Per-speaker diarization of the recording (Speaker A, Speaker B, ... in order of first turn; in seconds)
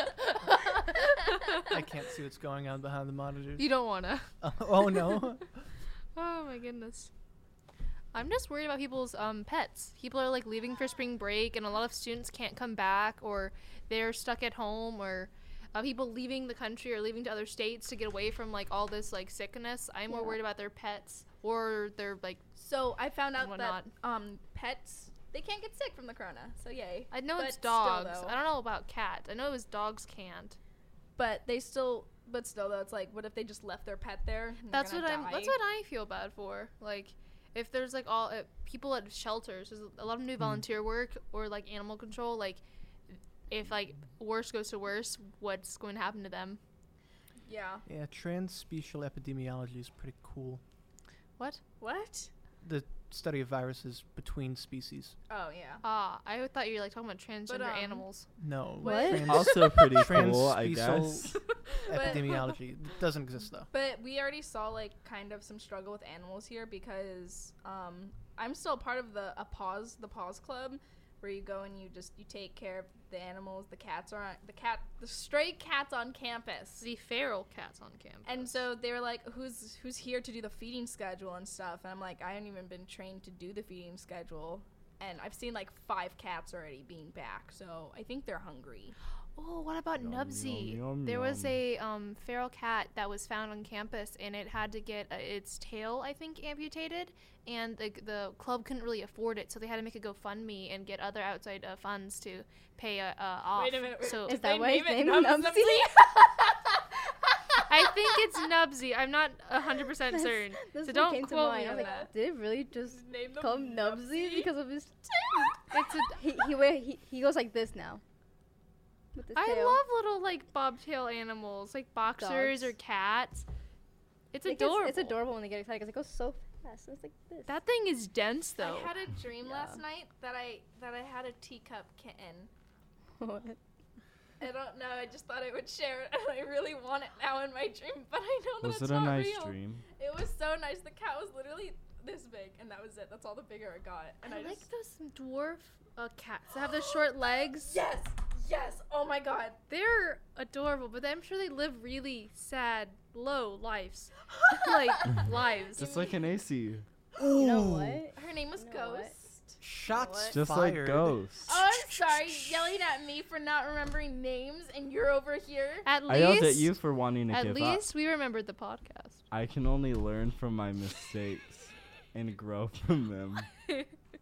Speaker A: 1.3-1.7, 3.6-4.3, 6.2-7.1, 8.1-22.4, 23.4-23.9, 27.1-30.6, 34.7-42.6, 43.5-46.6, 55.8-58.3, 76.8-78.7, 89.4-104.4, 107.7-112.1, 115.7-116.2, 119.3-123.5, 124.3-125.2, 127.5-128.9, 144.2-147.8, 149.7-156.0, 161.6-162.7, 165.8-166.8, 167.3-169.2
Speaker B: 1.6-3.8, 4.4-5.5, 47.9-50.6, 52.6-55.2, 58.4-63.7, 157.2-158.0, 159.6-161.2
Speaker C: 20.1-20.4, 58.8-59.5, 104.2-106.4, 110.0-118.0, 119.1-119.8, 122.2-122.8, 124.5-127.6, 129.5-129.8, 133.2-133.6, 157.3-159.1
Speaker D: 22.6-28.4, 31.2-35.6, 47.5-47.8, 51.8-52.3, 55.3-55.8, 57.5-58.1, 58.8-59.6, 61.8-62.5, 63.7-76.9, 78.3-89.0, 103.5-106.8, 107.5-108.3, 111.7-112.1, 112.8-114.5, 115.1-115.9, 128.6-132.5, 134.4-144.7, 147.4-149.6, 154.3-156.2, 158.1-160.4, 161.5-165.9
Speaker E: 59.2-61.4, 90.0-91.6, 138.6-139.8, 155.8-156.9, 160.3-161.6, 166.1-167.8, 169.3-173.5